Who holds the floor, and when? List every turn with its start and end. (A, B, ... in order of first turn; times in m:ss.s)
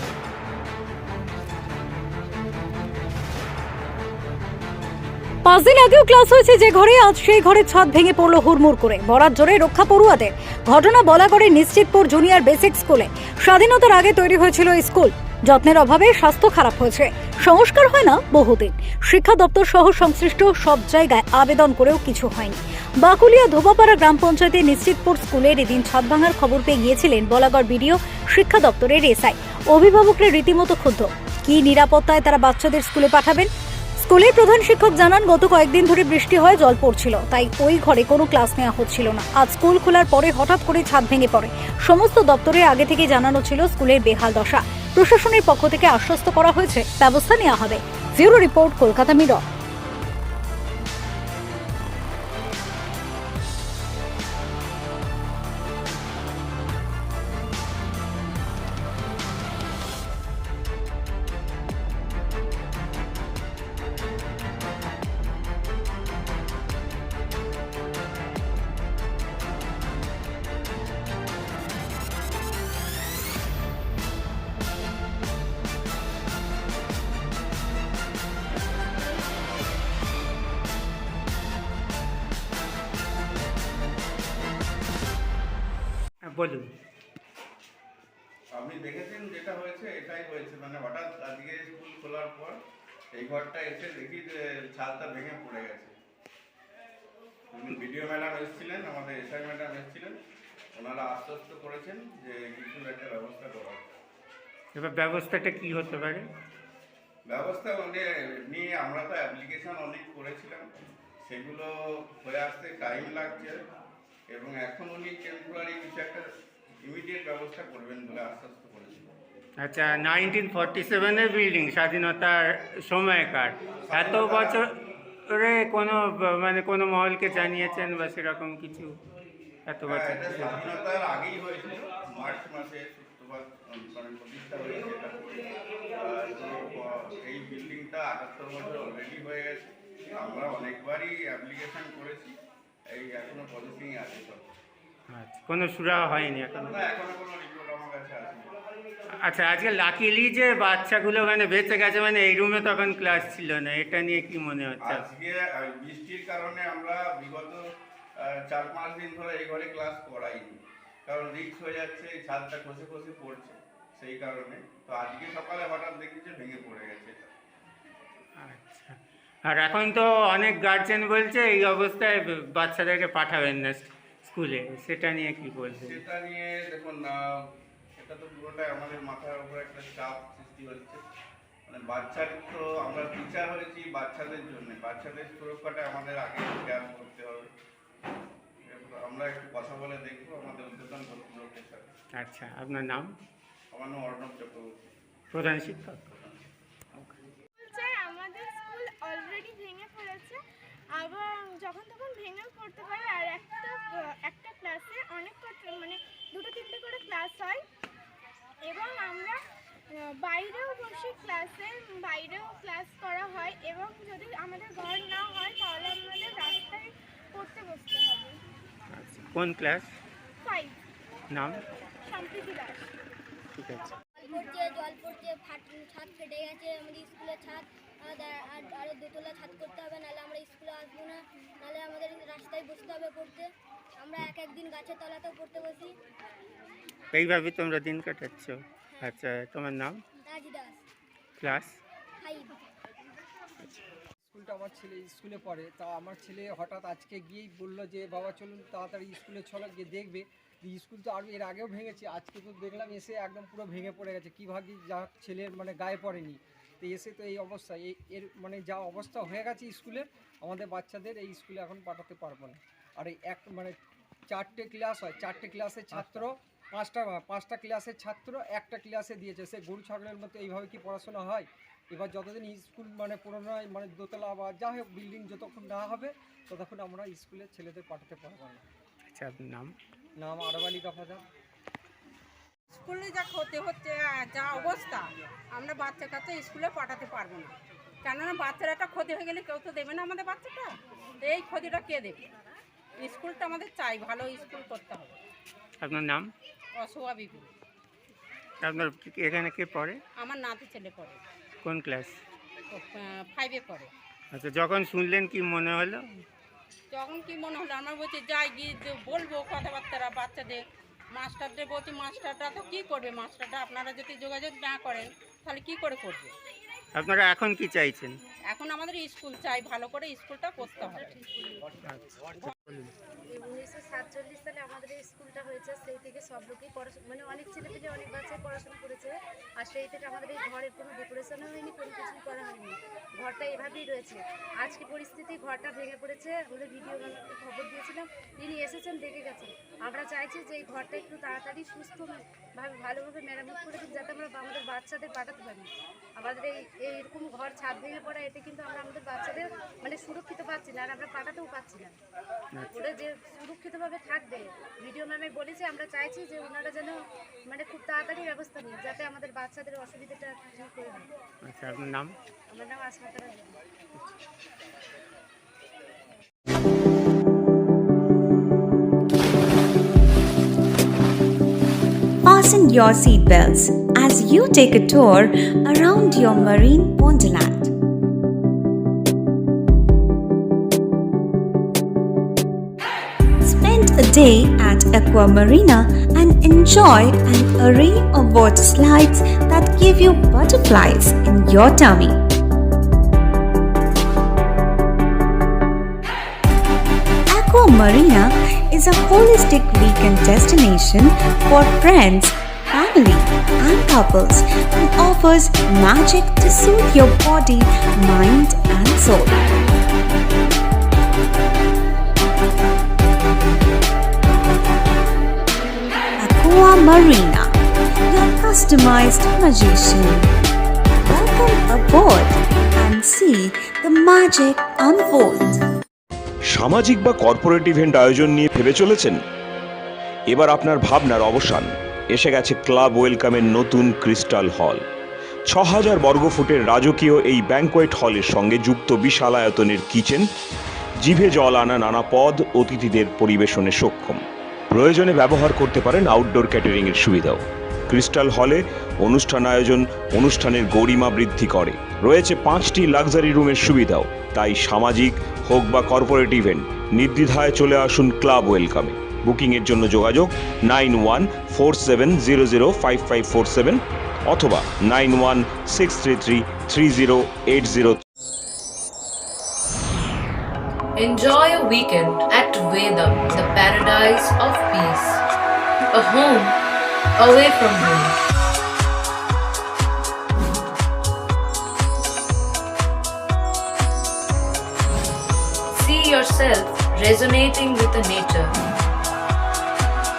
0:05.4-0:49.4 A
1:26.3-1:26.7 B
1:28.5-1:32.6 C
1:33.1-1:35.9 C
1:37.5-1:40.2 C
1:40.7-1:43.9 C
1:44.7-1:46.3 B
1:47.3-1:50.7 C
1:51.2-1:53.6 C
1:54.3-1:56.2 C
1:56.8-1:59.1 C
1:59.6-2:04.7 B
2:03.8-2:04.6 C
2:05.3-2:08.9 B
2:09.7-2:10.6 B
2:09.8-2:15.2 C
2:16.0-2:22.4 C
2:22.9-2:24.5 C
2:25.1-2:26.7 B
2:26.6-2:28.5 C
2:29.3-2:35.1 B
2:34.8-2:37.6 C
2:38.2-2:47.3 C
2:48.4-2:49.0 B
2:49.5-2:56.0 B
2:55.7-2:57.4 C
2:58.0-3:01.0 C
3:01.7-3:07.5 C
3:08.6-3:11.9 C
3:12.2-3:13.1 B
3:13.7-3:14.8 C
3:15.3-3:16.0 B
3:16.1-3:16.4 C
3:17.6-3:20.4 D
3:20.9-3:27.6 D
3:28.6-3:38.4 D
3:38.9-3:40.0 B
3:40.4-3:40.8 D
3:41.3-3:41.6 B
3:42.1-3:42.9 D
3:43.6-3:43.9 B
3:44.2-3:56.0 E
3:57.1-4:00.0 B
4:00.2-4:00.8 E
4:01.4-4:01.8 B
4:02.2-4:02.6 E
4:04.3-4:23.8 F
4:24.3-4:38.6 F
4:39.1-4:39.7 B
4:40.2-4:41.2 F
4:42.7-4:52.3 G
4:53.0-4:55.1 G
4:55.8-4:56.3 B
4:56.8-4:57.5 G
4:58.6-5:00.0 B
5:00.2-5:01.2 G
5:01.6-5:02.2 B
5:02.7-5:03.9 G
5:04.3-5:06.2 B
5:06.9-5:10.6 G
5:11.1-5:16.3 G
5:17.0-5:18.2 B
5:18.5-5:21.2 G
5:20.8-5:21.7 H
5:21.9-5:22.9 B
5:23.3-5:52.0 H
5:52.6-5:52.9 B
5:52.7-5:57.0 H
5:57.5-6:01.1 H
6:01.5-6:02.2 B
6:02.6-6:03.6 H
6:12.2-6:17.7 I
6:23.4-6:32.2 I
6:37.3-6:49.5 I
6:56.2-6:57.6 I
6:58.1-7:00.3 I
7:01.0-7:05.6 I
7:06.5-7:09.2 J
7:10.3-7:14.8 J
7:15.5-7:20.3 J
7:21.0-7:48.0 J
7:51.0-7:55.2 K
7:55.9-7:56.6 K
7:57.2-7:58.2 K
8:05.7-8:08.6 K